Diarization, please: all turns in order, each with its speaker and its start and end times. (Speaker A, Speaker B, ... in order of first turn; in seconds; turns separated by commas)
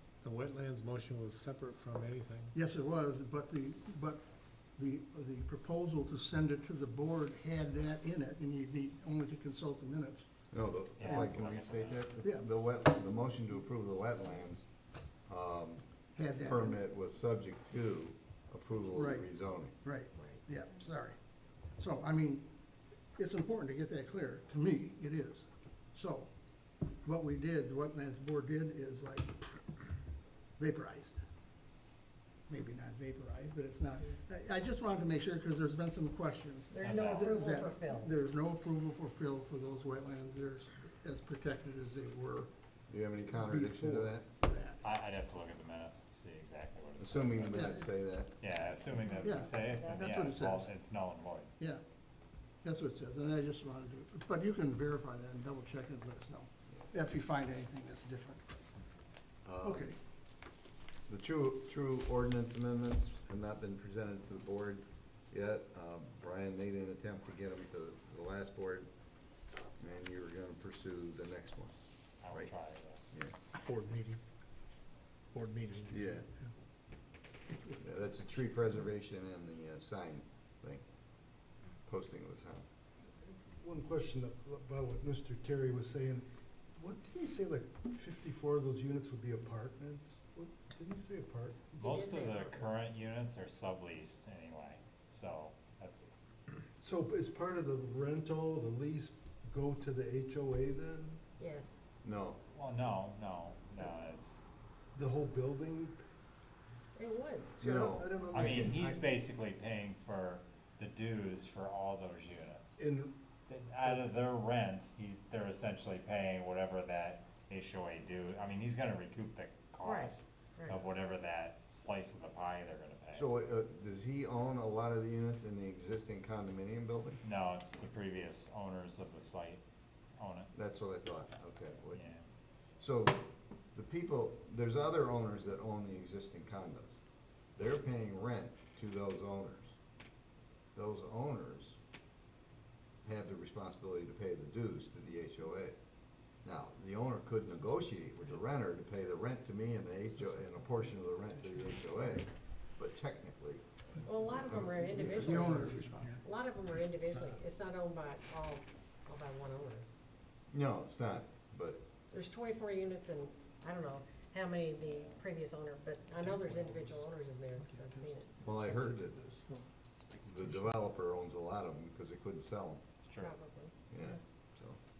Speaker A: 0.2-2.5, Speaker B: 2.5-4.2, Speaker B: 4.8-10.3, Speaker C: 10.5-14.7, Speaker D: 11.0-12.2, Speaker B: 11.0-11.3, Speaker B: 12.2-12.4, Speaker C: 15.3-19.8, Speaker B: 16.1-16.8, Speaker B: 18.9-19.2, Speaker B: 19.8-21.2, Speaker B: 21.7-22.5, Speaker B: 23.1-26.3, Speaker B: 27.0-29.8, Speaker B: 30.6-31.2, Speaker B: 32.5-42.5, Speaker E: 36.7-38.1, Speaker D: 36.8-37.4, Speaker C: 42.9-44.2, Speaker F: 43.4-44.1, Speaker B: 44.4-44.8, Speaker D: 44.8-47.7, Speaker C: 47.0-48.4, Speaker B: 47.5-47.9, Speaker D: 48.4-51.5, Speaker B: 49.2-50.7, Speaker E: 49.4-50.0, Speaker B: 52.6-58.4, Speaker C: 59.4-59.9, Speaker B: 59.6-60.0, Speaker C: 61.1-68.9, Speaker C: 69.8-71.8, Speaker D: 72.2-73.1, Speaker C: 72.3-72.5, Speaker C: 73.1-73.4, Speaker A: 73.5-74.2, Speaker A: 75.3-76.1, Speaker C: 75.8-76.3, Speaker B: 77.5-77.8, Speaker C: 77.8-80.8, Speaker C: 81.8-82.7, Speaker F: 83.2-92.0, Speaker D: 91.8-96.1, Speaker E: 91.8-92.5, Speaker F: 96.8-101.2, Speaker E: 101.4-101.8, Speaker C: 102.0-102.4, Speaker D: 102.5-104.4, Speaker F: 104.9-106.0, Speaker E: 107.0-107.6, Speaker F: 107.6-109.0, Speaker C: 107.6-109.0, Speaker D: 108.3-112.8, Speaker F: 112.8-113.2, Speaker D: 113.5-123.3, Speaker E: 119.8-120.8, Speaker C: 123.1-127.2, Speaker D: 127.2-129.6, Speaker D: 130.2-130.5, Speaker C: 130.5-132.0, Speaker D: 131.9-132.2, Speaker C: 132.8-137.0, Speaker C: 137.6-139.7, Speaker C: 140.7-141.8, Speaker C: 143.0-145.8, Speaker C: 146.4-153.7, Speaker E: 154.0-159.8, Speaker C: 154.3-155.6, Speaker F: 154.8-156.2, Speaker B: 155.0-156.2, Speaker C: 160.5-161.8, Speaker E: 162.1-168.6, Speaker D: 164.8-165.2, Speaker A: 166.4-167.0, Speaker A: 167.6-168.1, Speaker C: 168.4-169.4, Speaker A: 169.3-170.7, Speaker C: 170.2-172.8, Speaker D: 173.1-173.3, Speaker E: 173.2-174.1, Speaker C: 173.9-174.8